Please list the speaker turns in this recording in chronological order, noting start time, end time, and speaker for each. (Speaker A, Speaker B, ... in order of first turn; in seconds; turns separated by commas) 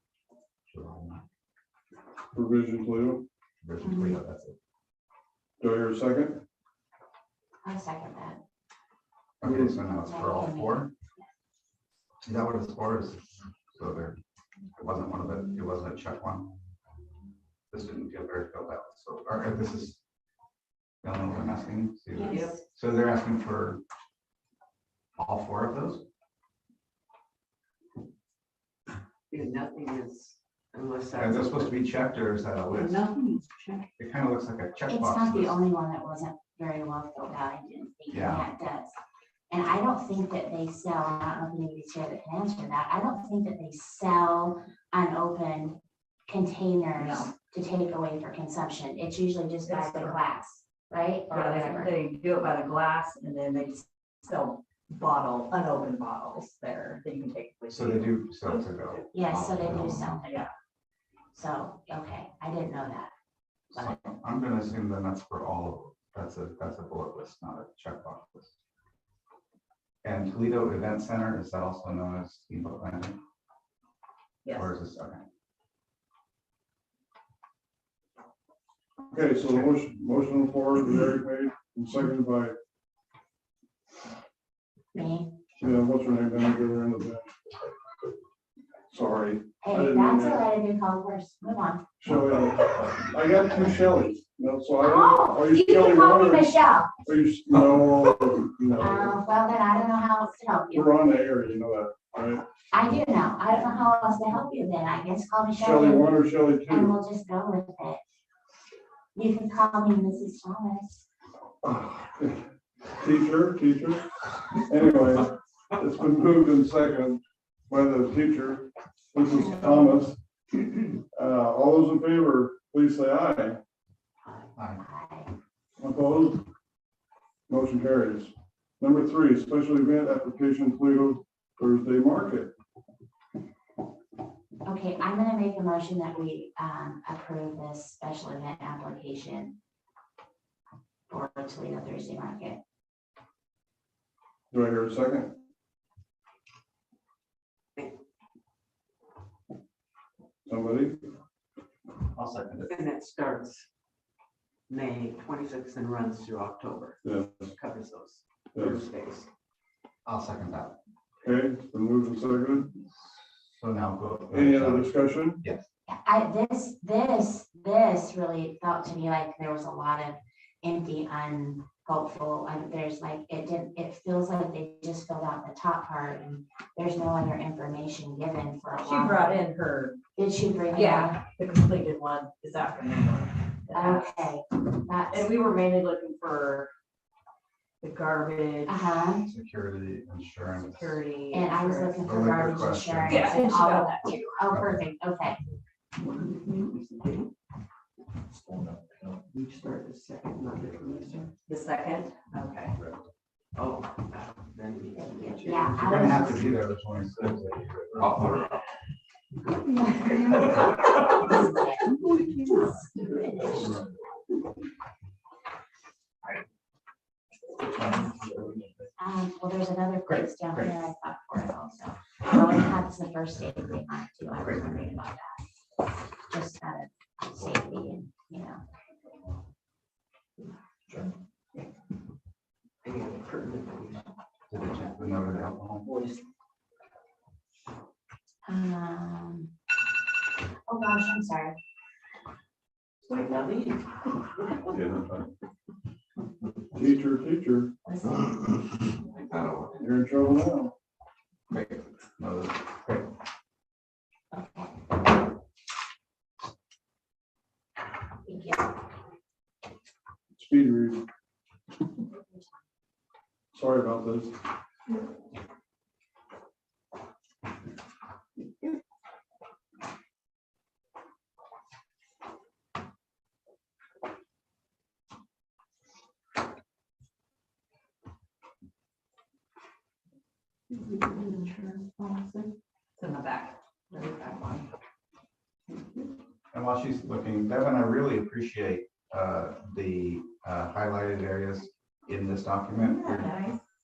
Speaker A: 0.7-1.2, Speaker B: 2.3-3.2, Speaker A: 3.6-4.6, Speaker C: 3.8-4.2, Speaker B: 5.6-6.4, Speaker C: 7.6-8.4, Speaker A: 9.4-10.9, Speaker B: 9.4-9.8, Speaker C: 9.9-10.9, Speaker A: 12.2-14.2, Speaker A: 14.8-16.5, Speaker A: 17.7-20.0, Speaker A: 21.0-23.8, Speaker C: 22.2-22.6, Speaker D: 22.3-22.6, Speaker A: 25.2-26.1, Speaker E: 29.3-31.8, Speaker A: 31.1-33.0, Speaker D: 32.7-33.8, Speaker A: 34.0-35.6, Speaker C: 34.9-38.9, Speaker A: 38.1-38.5, Speaker C: 39.5-52.0, Speaker D: 47.0-47.3, Speaker D: 49.6-50.2, Speaker D: 51.3-58.3, Speaker A: 57.7-59.0, Speaker C: 59.1-60.3, Speaker D: 60.2-60.5, Speaker C: 61.3-63.1, Speaker A: 63.7-68.5, Speaker A: 70.0-73.2, Speaker D: 74.5-74.7, Speaker A: 74.5-75.2, Speaker B: 79.1-82.5, Speaker C: 85.0-85.3, Speaker B: 85.6-87.6, Speaker B: 88.9-90.5, Speaker C: 89.6-91.8, Speaker B: 92.0-99.2, Speaker C: 94.8-96.9, Speaker C: 98.8-100.9, Speaker B: 100.7-102.4, Speaker C: 102.7-106.2, Speaker B: 105.6-106.9, Speaker C: 106.7-108.0, Speaker C: 109.2-111.0, Speaker B: 111.6-112.4, Speaker B: 113.0-114.1, Speaker B: 114.7-120.2, Speaker B: 120.8-123.6, Speaker A: 124.6-124.8, Speaker C: 124.8-125.3, Speaker B: 125.8-126.4, Speaker B: 127.5-132.5, Speaker C: 134.7-139.6, Speaker C: 141.1-142.6, Speaker B: 144.5-145.4, Speaker B: 150.5-151.0, Speaker A: 152.1-152.7, Speaker E: 152.6-153.7, Speaker E: 154.7-159.3, Speaker B: 157.0-157.4, Speaker A: 160.1-160.8, Speaker B: 161.2-162.7, Speaker A: 163.5-164.9, Speaker B: 164.3-165.4, Speaker C: 165.9-179.4, Speaker D: 178.7-180.0, Speaker C: 180.2-181.2, Speaker D: 180.7-184.3, Speaker C: 183.7-185.4, Speaker D: 185.1-186.7, Speaker D: 187.8-189.0, Speaker C: 188.7-189.2, Speaker A: 189.2-191.0, Speaker D: 190.6-192.1, Speaker C: 191.3-195.4, Speaker A: 192.0-193.3, Speaker D: 193.0-194.4, Speaker A: 194.5-194.8, Speaker D: 196.0-196.9, Speaker E: 196.8-197.2, Speaker E: 199.3-201.3, Speaker D: 201.5-202.8, Speaker E: 203.6-206.3, Speaker C: 205.1-206.5, Speaker A: 205.7-208.4, Speaker E: 208.2-208.6, Speaker D: 209.7-213.6, Speaker C: 210.0-212.0, Speaker C: 213.0-213.6, Speaker A: 217.8-218.7, Speaker C: 219.0-225.4, Speaker A: 220.1-220.7, Speaker C: 226.3-228.6, Speaker E: 232.8-234.1, Speaker A: 234.5-235.9, Speaker C: 238.5-239.5, Speaker C: 240.7-241.6, Speaker E: 243.0-244.7, Speaker B: 244.7-245.2, Speaker B: 246.7-247.7, Speaker C: 247.8-248.3, Speaker E: 249.1-249.8, Speaker B: 249.8-250.7, Speaker A: 251.5-253.1, Speaker C: 254.3-254.7, Speaker C: 258.3-258.5, Speaker B: 260.4-261.0, Speaker B: 263.5-264.3, Speaker D: 280.8-284.7, Speaker D: 285.7-286.1, Speaker A: 286.5-293.3, Speaker D: 292.8-293.6